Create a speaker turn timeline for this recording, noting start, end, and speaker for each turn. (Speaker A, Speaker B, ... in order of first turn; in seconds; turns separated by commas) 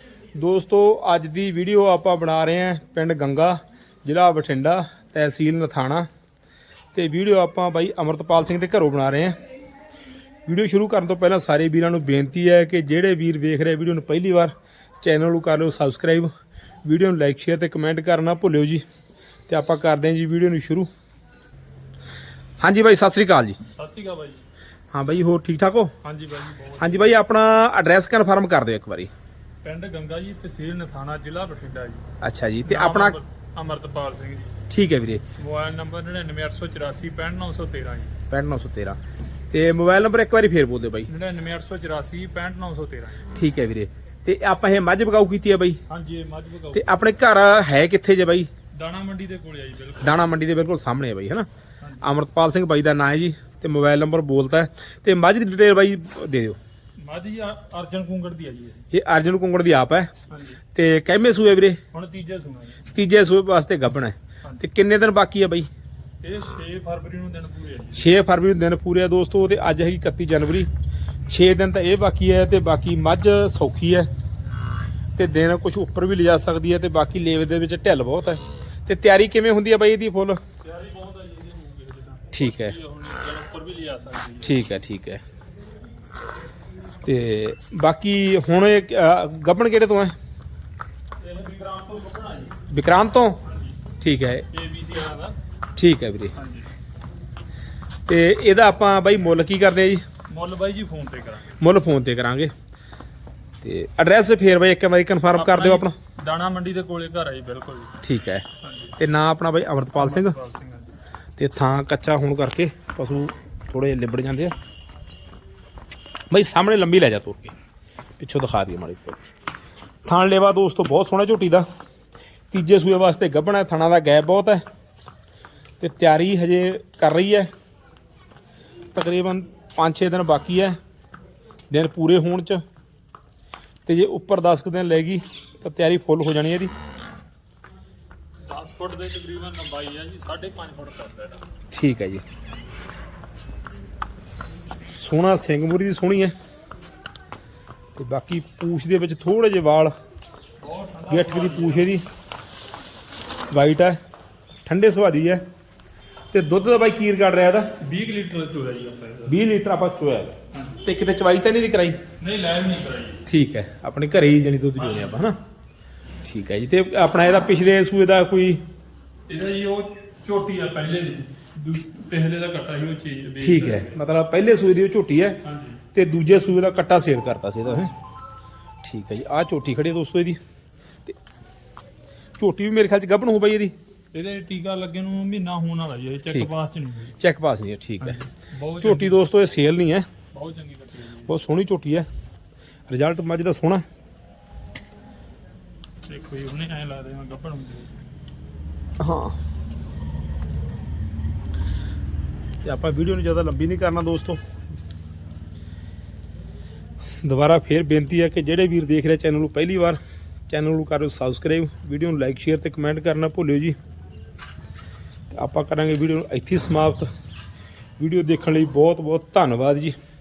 Speaker A: 0.3-6.1, Speaker A: 6.9-9.4, Speaker A: 10.5-16.3, Speaker A: 16.9-18.8, Speaker A: 19.5-20.9, Speaker A: 22.6-23.6, Speaker B: 23.8-24.4, Speaker A: 24.9-25.9, Speaker B: 26.0-27.1, Speaker A: 26.8-29.1, Speaker B: 29.6-32.0, Speaker A: 32.2-33.2, Speaker B: 32.6-34.6, Speaker A: 34.7-35.2, Speaker B: 35.4-38.1, Speaker A: 38.3-39.0, Speaker A: 39.5-41.1, Speaker B: 41.1-43.3, Speaker A: 43.3-45.8, Speaker B: 45.9-47.0, Speaker A: 46.7-48.5, Speaker B: 48.7-50.2, Speaker A: 50.0-51.5, Speaker B: 51.8-52.1, Speaker A: 52.0-56.6, Speaker B: 57.0-58.8, Speaker A: 58.9-60.1, Speaker B: 60.3-60.6, Speaker A: 60.7-61.8, Speaker B: 61.9-62.9, Speaker A: 62.9-65.7, Speaker B: 66.2-68.1, Speaker A: 68.0-70.7, Speaker A: 71.3-74.1, Speaker A: 75.2-80.4, Speaker B: 80.6-84.6, Speaker A: 82.3-82.8, Speaker A: 84.4-85.2, Speaker A: 87.0-90.2, Speaker B: 91.2-92.6, Speaker A: 92.7-93.4, Speaker B: 93.4-93.8, Speaker A: 94.0-94.5, Speaker B: 94.5-95.4, Speaker A: 95.8-96.3, Speaker B: 96.3-96.7, Speaker A: 98.1-100.0, Speaker B: 100.3-101.6, Speaker A: 101.6-102.5, Speaker A: 103.6-106.0, Speaker B: 105.3-108.0, Speaker A: 108.0-108.5, Speaker B: 108.6-109.0, Speaker A: 109.0-110.4, Speaker B: 110.0-111.0, Speaker A: 111.4-114.5, Speaker A: 116.3-117.5, Speaker A: 118.2-119.2, Speaker A: 120.0-121.7, Speaker A: 122.5-124.6, Speaker A: 125.8-127.5, Speaker A: 128.9-130.8, Speaker A: 131.7-132.6, Speaker A: 133.9-136.7, Speaker B: 138.4-141.4, Speaker A: 141.7-142.2, Speaker A: 145.0-146.3, Speaker A: 148.0-149.9, Speaker B: 150.6-151.9, Speaker A: 151.1-152.1, Speaker A: 153.5-154.0, Speaker A: 154.7-155.4, Speaker A: 156.3-157.7, Speaker B: 157.8-159.4, Speaker A: 159.3-162.0, Speaker B: 160.5-160.8, Speaker B: 162.2-163.3, Speaker A: 163.3-165.4, Speaker B: 164.8-165.3, Speaker A: 166.2-168.6, Speaker B: 169.3-174.0, Speaker A: 173.4-175.4, Speaker B: 175.4-175.8, Speaker A: 175.9-177.9, Speaker A: 178.8-180.4, Speaker A: 182.4-183.7, Speaker B: 184.1-187.2, Speaker A: 187.2-188.2, Speaker B: 188.0-189.2, Speaker A: 188.8-190.1, Speaker B: 190.3-191.3, Speaker A: 191.3-192.1, Speaker A: 192.9-193.8, Speaker B: 196.1-198.0, Speaker A: 199.0-199.4, Speaker A: 202.6-204.4, Speaker A: 207.2-213.8, Speaker A: 215.3-217.1, Speaker A: 218.0-220.0